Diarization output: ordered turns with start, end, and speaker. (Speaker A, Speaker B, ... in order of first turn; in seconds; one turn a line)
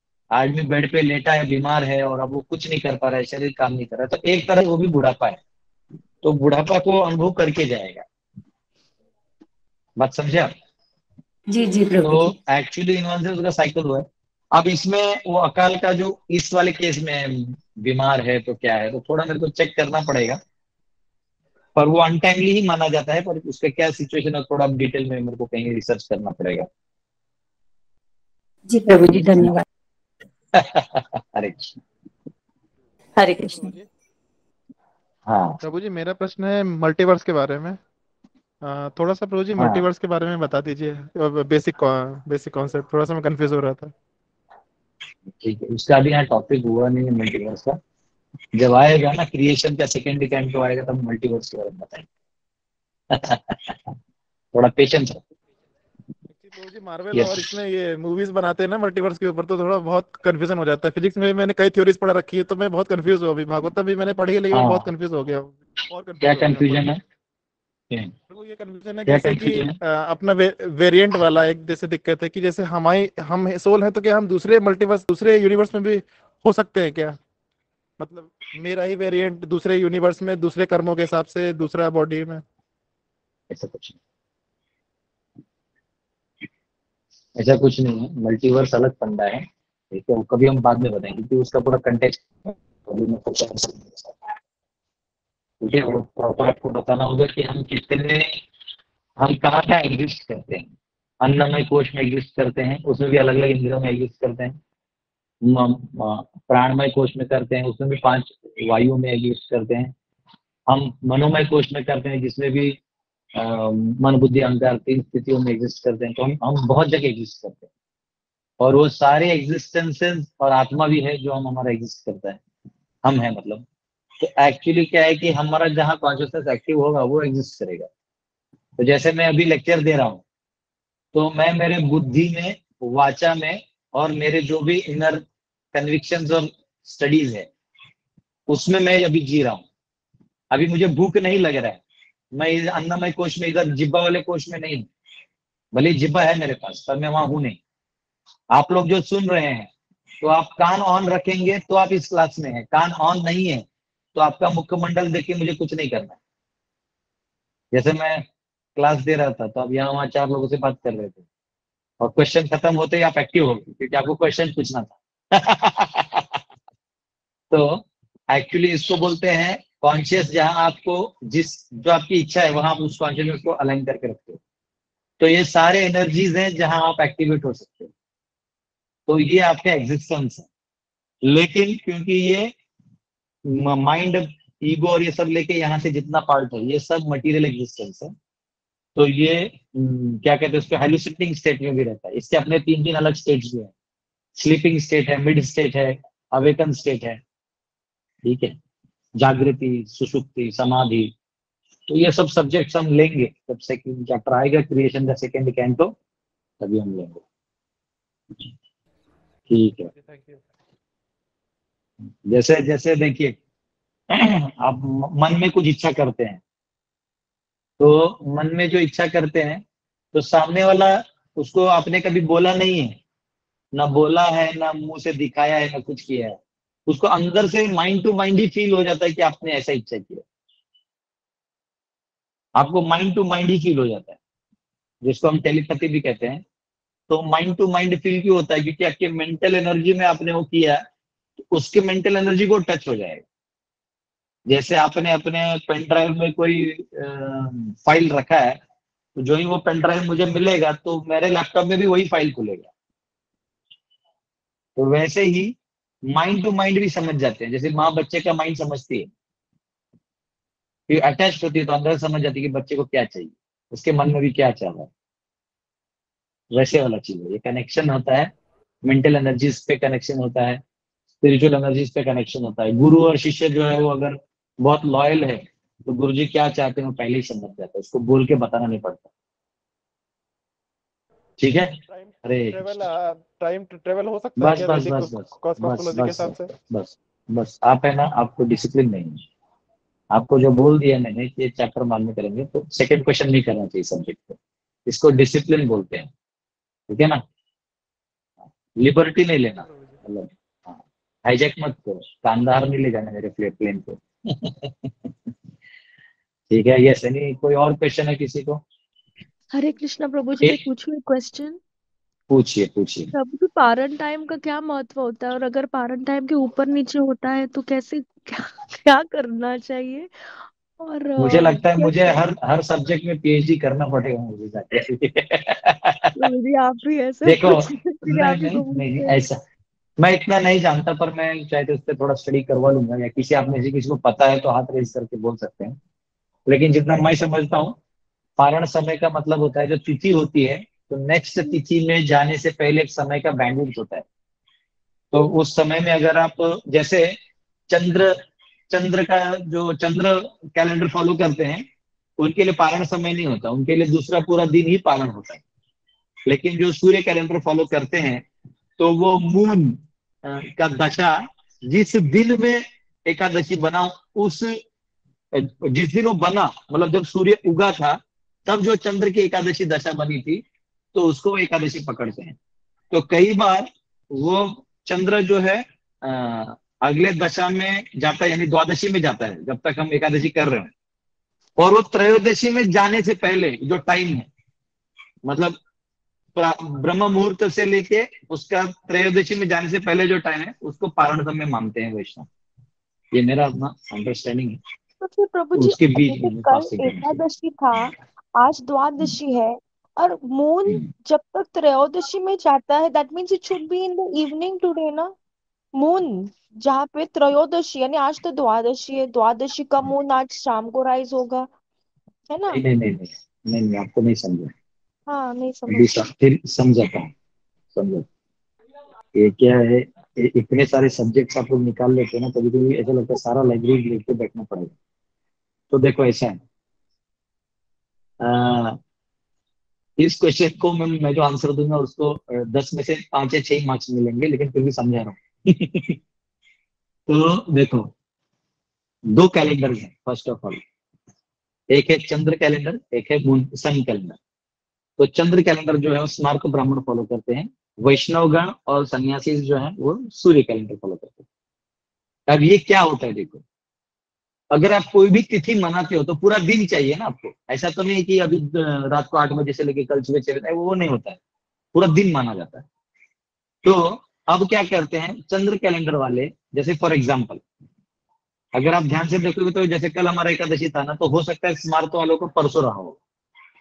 Speaker A: 0.3-5.4
Speaker A: 6.2-8.0
Speaker A: 10.0-10.5
Speaker B: 11.5-12.3
Speaker A: 12.0-20.4
Speaker A: 21.8-26.7
Speaker B: 28.7-29.6
Speaker A: 29.1-29.5
Speaker A: 30.5-31.8
Speaker B: 33.2-33.7
Speaker C: 33.5-33.9
Speaker A: 35.3-35.6
Speaker C: 35.6-37.8
Speaker C: 38.6-43.9
Speaker A: 39.6-39.9
Speaker A: 45.4-47.8
Speaker A: 48.5-52.0
Speaker A: 53.1-53.9
Speaker A: 54.5-55.2
Speaker C: 56.3-66.9
Speaker A: 57.1-57.5
Speaker A: 64.5-64.9
Speaker A: 66.2-67.0
Speaker C: 68.3-77.2
Speaker A: 69.0-69.8
Speaker C: 78.0-82.4
Speaker A: 83.5-84.0
Speaker A: 87.3-94.2
Speaker A: 95.6-98.4
Speaker A: 99.2-100.7
Speaker A: 101.2-104.5
Speaker A: 105.4-109.9
Speaker A: 110.7-112.8
Speaker A: 113.3-117.7
Speaker A: 118.6-122.4
Speaker A: 123.0-123.6
Speaker A: 124.2-127.9
Speaker A: 128.8-130.2
Speaker A: 131.1-137.5
Speaker A: 138.5-139.6
Speaker A: 140.5-141.8
Speaker A: 142.3-144.9
Speaker A: 145.7-147.6
Speaker A: 148.5-149.7
Speaker A: 150.2-156.2
Speaker A: 157.7-161.2
Speaker A: 162.0-166.4
Speaker A: 167.5-174.4
Speaker A: 175.2-177.9
Speaker A: 179.1-180.5
Speaker A: 181.2-182.5
Speaker A: 183.5-188.1
Speaker A: 188.9-193.7
Speaker A: 194.3-197.2
Speaker A: 198.2-198.5
Speaker A: 199.2-201.1
Speaker A: 201.9-205.9
Speaker A: 206.6-207.2
Speaker A: 209.5-209.9
Speaker C: 209.9-210.4
Speaker A: 212.3-213.3
Speaker A: 214.1-216.4
Speaker A: 217.8-223.0
Speaker A: 223.7-230.2
Speaker A: 232.6-234.2
Speaker A: 235.0-236.4
Speaker A: 237.1-240.8
Speaker A: 241.5-243.2
Speaker A: 244.5-248.6
Speaker A: 249.2-252.7
Speaker A: 254.8-255.5
Speaker A: 256.1-259.1
Speaker A: 260.9-264.9
Speaker A: 266.5-268.3
Speaker A: 268.8-270.6
Speaker A: 271.2-279.1
Speaker A: 281.4-282.8
Speaker C: 281.9-286.5
Speaker A: 284.4-289.2
Speaker A: 290.1-296.1
Speaker A: 296.9-297.2
Speaker A: 298.8-304.7
Speaker A: 306.5-308.6
Speaker D: 309.5-311.6
Speaker A: 312.3-313.1
Speaker D: 313.1-322.2
Speaker A: 321.2-326.1
Speaker D: 326.1-329.3
Speaker A: 327.2-329.4
Speaker A: 330.0-335.8
Speaker A: 336.5-337.8
Speaker A: 338.4-344.0
Speaker A: 345.1-347.2
Speaker A: 347.7-348.2
Speaker A: 348.7-351.6
Speaker A: 352.2-355.4
Speaker A: 356.2-358.2
Speaker A: 358.8-364.6
Speaker A: 365.3-370.4
Speaker A: 370.9-372.4
Speaker A: 372.9-380.7
Speaker A: 381.6-384.3
Speaker A: 385.2-385.6
Speaker A: 386.4-392.2
Speaker A: 393.1-394.6
Speaker D: 395.0-405.1
Speaker A: 395.5-397.2
Speaker D: 405.8-411.5
Speaker D: 412.3-412.6
Speaker A: 412.5-414.5
Speaker D: 415.1-415.9
Speaker A: 415.7-417.1
Speaker A: 417.7-418.1
Speaker A: 419.1-424.7
Speaker A: 425.7-426.4
Speaker A: 428.2-428.8
Speaker A: 430.0-436.0
Speaker A: 437.1-437.9
Speaker A: 439.1-440.6
Speaker A: 441.7-444.2
Speaker A: 445.0-451.2
Speaker A: 452.3-453.4
Speaker A: 454.5-461.2
Speaker A: 461.7-462.6
Speaker A: 463.6-467.4
Speaker A: 468.5-473.0